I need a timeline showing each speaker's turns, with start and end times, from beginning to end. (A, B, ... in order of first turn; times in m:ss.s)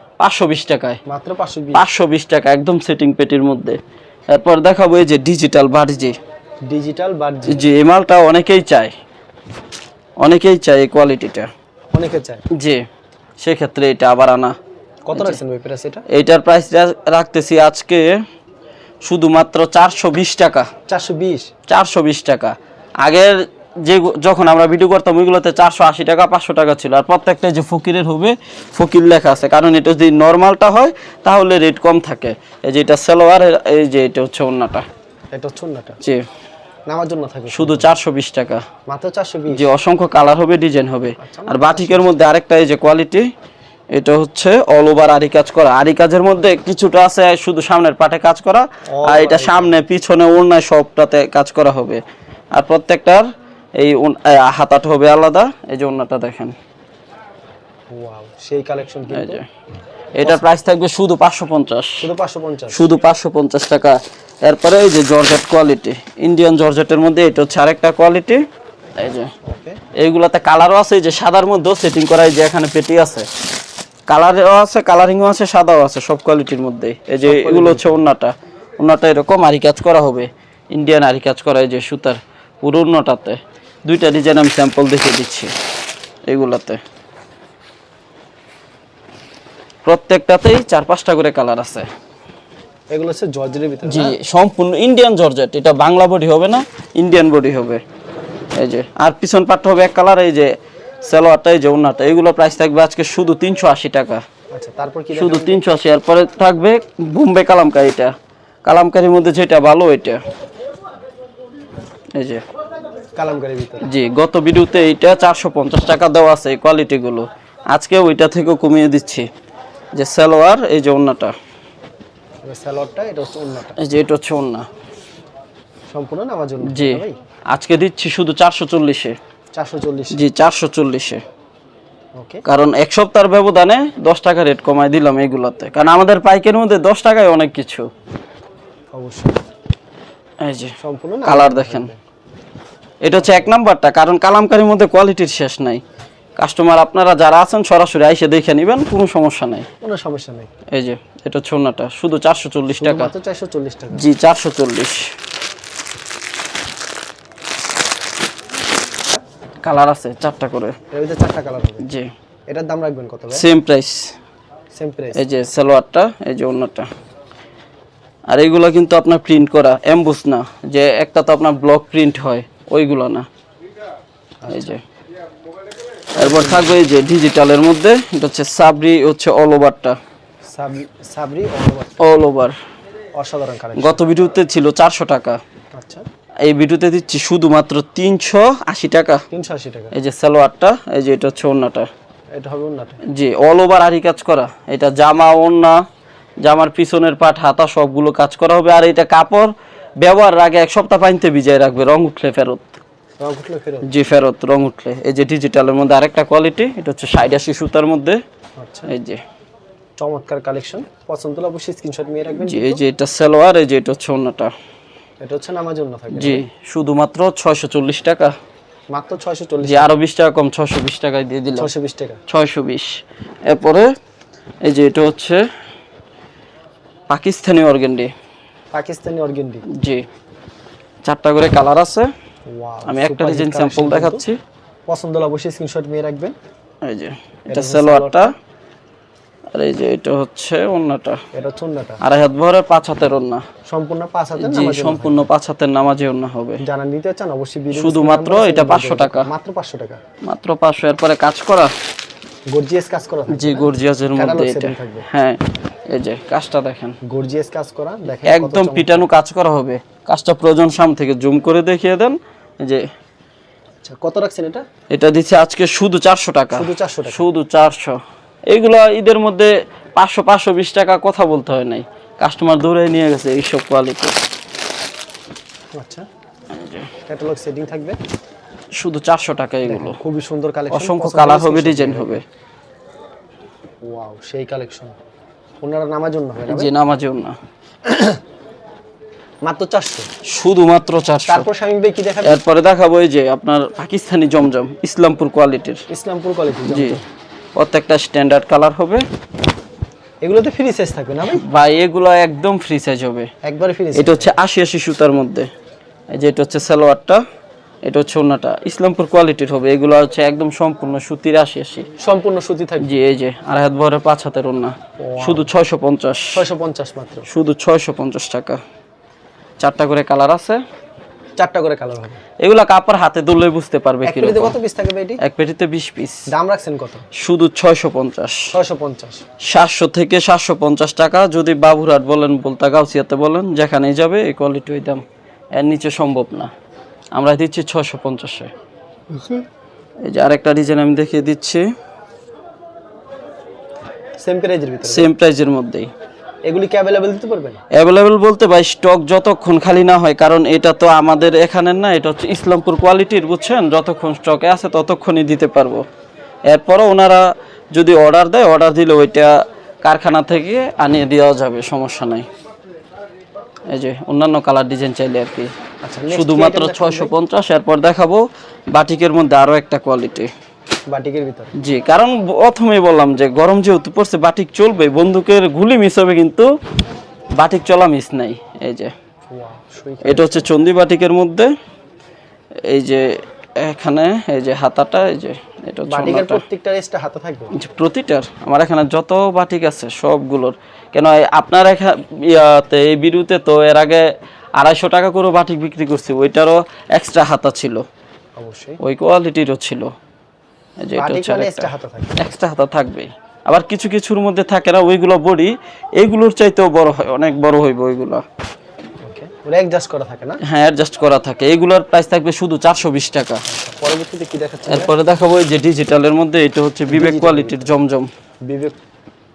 0:00.2-0:01.0 A
0:01.1-0:01.9 B
0:01.7-0:06.2 A
0:06.7-0:07.7 B
0:07.5-0:08.9 A
0:10.2-0:11.5 A
0:11.9-0:12.4 B
0:12.5-0:12.8 A
0:13.4-0:14.6 A
0:15.1-0:16.0 B
0:15.1-0:15.4 A
0:16.1-0:18.2 A
0:19.0-0:20.7 A
0:20.9-0:21.5 B
0:21.7-0:34.9 A
0:35.3-0:36.0 B
0:36.9-0:37.9 B
0:37.5-0:38.7 A
0:38.9-0:39.7 B
0:39.5-0:43.2 A
0:41.2-0:42.1 B
0:43.9-0:52.0 A
0:49.0-0:49.8 B
0:52.5-0:53.3 A
0:53.8-0:56.5 A
0:57.9-0:59.4 B
0:59.1-0:59.5 A
1:00.2-1:02.1 A
1:00.2-1:00.5 B
1:02.0-1:02.8 B
1:02.7-1:08.4 A
1:09.0-1:09.3 A
1:09.4-1:09.8 B
1:10.0-1:13.3 A
1:14.1-1:25.5 A
1:17.2-1:18.0 B
1:26.3-1:26.8 A
1:29.8-1:31.9 A
1:32.9-1:34.2 B
1:33.9-1:37.8 A
1:38.6-1:40.5 A
1:41.0-1:44.2 A
1:44.5-1:45.6 B
1:45.2-1:48.1 A
1:48.6-1:50.2 A
1:52.2-1:52.4 A
1:53.2-1:53.9 B
1:53.8-1:59.3 A
2:00.0-2:01.3 A
2:02.5-2:03.8 B
2:03.8-2:04.7 A
2:05.9-2:07.2 B
2:06.6-2:09.2 A
2:09.5-2:10.2 B
2:10.1-2:11.2 A
2:12.2-2:12.4 B
2:12.4-2:17.9 A
2:18.9-2:19.4 B
2:20.4-2:20.7 A
2:20.8-2:22.0 B
2:21.3-2:21.9 A
2:23.0-2:25.8 A
2:23.2-2:23.5 B
2:26.4-2:29.7 A
2:29.8-2:30.5 B
2:30.7-2:33.1 A
2:32.8-2:34.1 B
2:33.9-2:35.1 A
2:39.6-2:40.8 A
2:40.9-2:41.9 B
2:41.8-2:42.1 A
2:42.5-2:43.5 B
2:43.3-2:44.1 A
2:44.7-2:45.2 B
2:45.2-2:46.9 A
2:48.3-2:53.3 A
2:54.4-2:54.8 B
2:54.5-2:54.8 A
2:56.2-2:56.8 B
2:56.2-3:00.0 A
3:00.5-3:02.1 B
3:02.0-3:02.6 A
3:03.2-3:04.0 B
3:03.8-3:05.4 A
3:05.8-3:06.0 B
3:06.4-3:09.2 A
3:09.3-3:09.9 B
3:09.9-3:11.9 A
3:12.4-3:13.0 B
3:13.0-3:15.8 A
3:16.4-3:22.8 A
3:23.2-3:24.0 B
3:23.8-3:28.2 A
3:28.6-3:28.9 B
3:28.9-3:29.2 A
3:30.0-3:32.8 B
3:32.4-3:34.5 A
3:35.2-3:36.4 B
3:36.1-3:38.4 A
3:38.9-3:39.9 B
3:39.6-3:41.7 A
3:41.6-3:42.2 B
3:42.3-3:43.9 A
3:44.6-3:45.4 A
3:47.1-3:48.1 A
3:48.7-3:49.6 B
3:49.7-3:50.0 A
3:51.0-3:52.1 A
3:52.5-3:54.2 B
3:52.9-3:54.4 A
3:54.9-3:56.4 B
3:56.8-3:58.3 A
3:57.5-3:58.3 B
3:59.5-4:01.2 A
4:01.3-4:02.0 B
4:02.0-4:03.4 A
4:03.7-4:05.3 B
4:04.4-4:06.6 A
4:06.6-4:10.0 B
4:07.8-4:09.3 A
4:10.2-4:11.7 A
4:12.5-4:15.0 B
4:13.3-4:17.0 A
4:17.0-4:19.1 B
4:18.2-4:22.9 A
4:23.8-4:24.6 B
4:24.9-4:34.2 A
4:26.5-4:27.2 B
4:35.8-4:36.1 B
4:36.6-4:36.9 A
4:37.1-4:38.0 B
4:38.8-4:40.0 A
4:39.7-4:42.2 B
4:40.7-4:42.2 A
4:43.8-4:44.9 B
4:45.6-4:46.7 B
4:46.5-4:47.4 A
4:47.8-4:48.2 B
4:49.4-4:50.1 B
4:50.3-4:51.5 A
4:51.3-4:52.4 B
4:52.2-4:55.8 A
4:55.9-4:57.0 B
4:56.7-4:57.0 A
4:57.6-4:59.0 A
5:00.2-5:01.4 B
5:01.3-5:03.3 A
5:03.4-5:04.4 B
5:04.0-5:05.5 A
5:06.1-5:07.2 A
5:07.9-5:11.9 A
5:12.0-5:13.0 B
5:12.8-5:16.4 A
5:15.0-5:15.5 B
5:16.3-5:17.3 B
5:17.3-5:18.6 A
5:19.6-5:20.6 A
5:21.4-5:22.2 B
5:22.4-5:24.6 A
5:24.0-5:25.2 B
5:25.2-5:26.3 A
5:26.3-5:27.0 B
5:27.1-5:28.5 A
5:28.5-5:29.2 B
5:29.4-5:35.0 A
5:35.6-5:36.5 A
5:37.1-5:38.5 A
5:39.1-5:39.4 B
5:40.0-5:41.6 A
5:44.2-5:45.1 B
5:44.8-5:45.9 A
5:46.5-5:47.6 B
5:47.7-5:55.8 A
5:56.5-6:02.3 A
6:03.7-6:05.5 A
6:05.8-6:07.1 B
6:06.1-6:10.3 A
6:10.9-6:11.6 B
6:11.6-6:16.5 A
6:17.4-6:18.9 A
6:19.3-6:20.4 B
6:20.0-6:21.5 A
6:22.7-6:26.4 A
6:25.9-6:27.5 B
6:27.5-6:34.1 A
6:34.6-6:37.8 A
6:38.4-6:38.8 B
6:38.8-6:39.9 A
6:40.8-6:48.2 A
6:41.0-6:42.2 B
6:49.0-6:50.4 B
6:50.4-6:53.4 A
6:53.5-6:54.9 B
6:54.7-6:58.1 A
6:56.9-6:57.7 B
6:58.5-6:58.8 B